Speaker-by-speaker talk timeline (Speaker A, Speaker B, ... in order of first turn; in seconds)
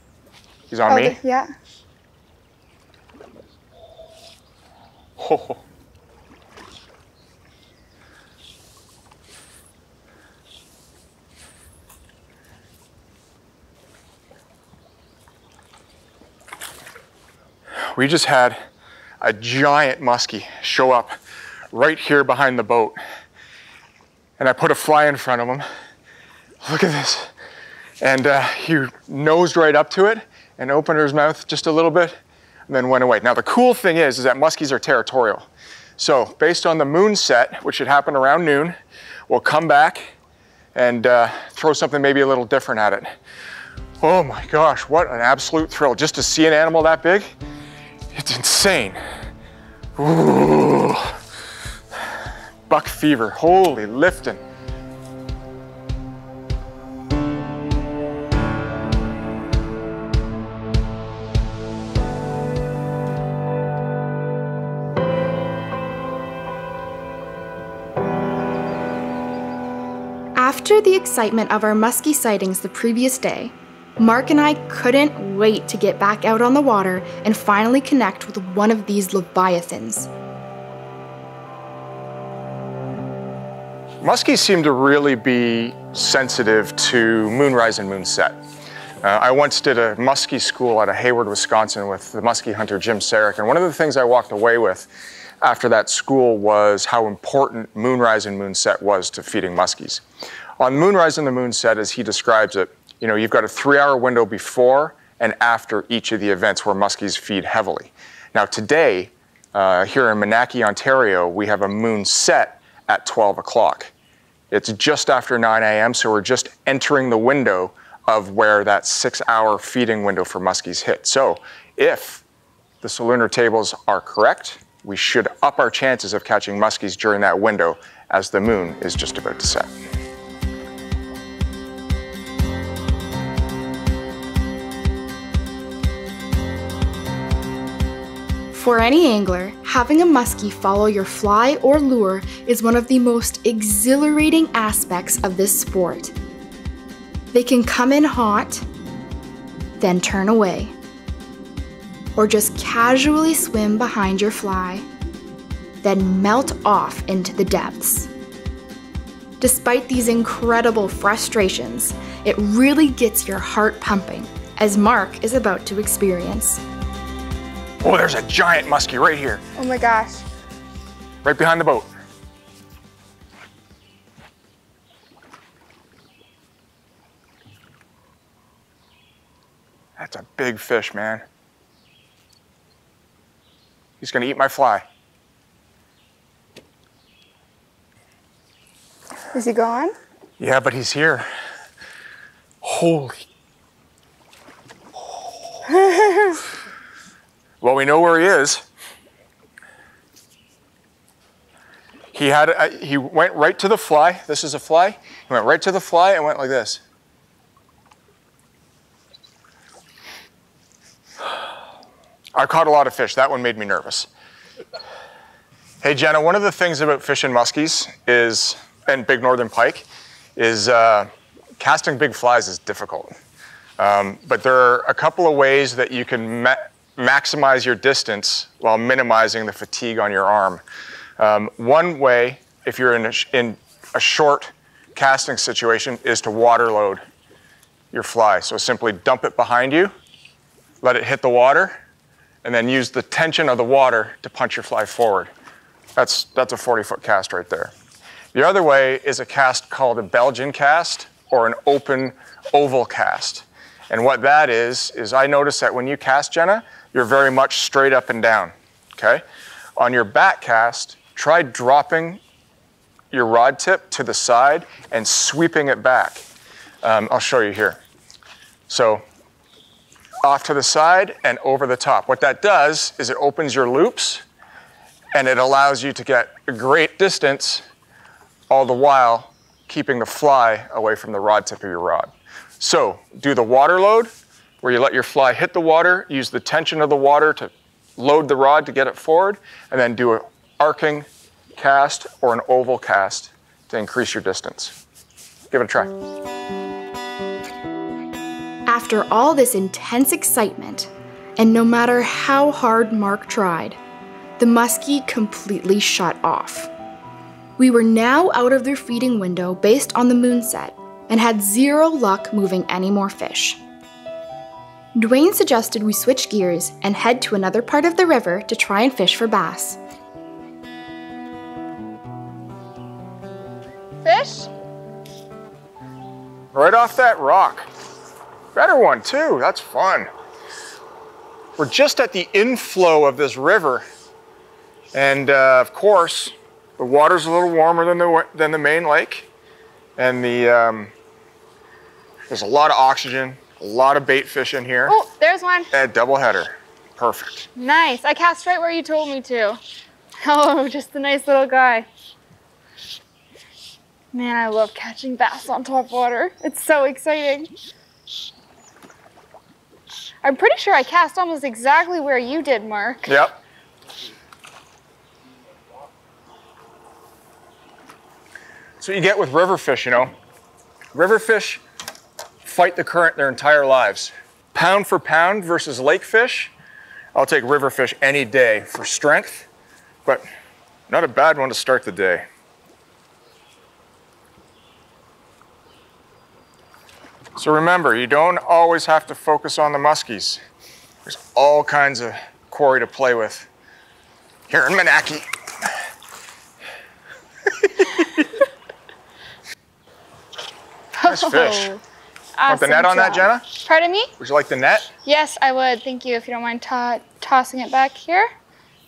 Speaker A: 0.7-1.2, 5.2-5.6, 17.9-18.6, 19.2-21.1, 21.7-23.0, 24.4-25.6, 26.6-27.3, 28.0-32.2, 32.7-35.5, 36.0-40.1, 40.7-43.1, 44.0-47.3, 48.1-49.0, 50.0-51.2, 52.7-54.4, 84.0-88.4, 89.0-94.9, 95.4-100.0, 100.6-113.9, 114.5-122.2, 122.8-129.7, 167.8-169.4, 171.2-171.9, 180.0-181.2, 184.0-184.8, 190.4-191.3, 192.6-193.2, 197.6-198.6, 202.1-206.8, 212.3-214.1, 215.8-221.1, 221.6-223.1, 223.8-230.6, 231.2-237.0, 237.9-239.9, 240.8-241.8, 242.4-245.3, 245.9-247.7, 248.3-259.2, 259.8-262.2, 263.1-266.2, 266.8-267.8, 268.7-269.0, 270.2-274.2, 275.1-277.6, 278.5-284.1, 284.6-294.7, 295.5-295.9, 326.5-327.7, 328.5-330.1, 331.6-333.8, 334.9-339.3, 340.0-340.9, 342.3-344.9, 345.7-347.5, 363.1-363.3, 368.8-370.1, 370.9-371.6, 372.4-376.5, 377.1-379.5, 380.9-382.2, 387.4-390.4, 391.1-393.5, 394.5-395.3, 397.6-398.2, 401.0-401.7, 402.5-403.5, 404.2-404.9
Speaker B: 0.9-1.5, 169.6-170.2, 189.3-189.9, 195.7-196.4, 324.0-324.5, 344.9-345.7, 347.6-349.6, 350.2-351.9, 354.1-357.5, 360.2-363.1, 401.0-401.8, 402.4-404.1, 405.1-408.3
Speaker C: 70.3-80.1, 138.5-146.1, 147.3-148.6, 149.8-150.7, 152.2-154.8, 155.8-158.1, 159.4-166.6, 298.7-303.8, 304.4-306.7, 307.6-313.6, 314.9-319.8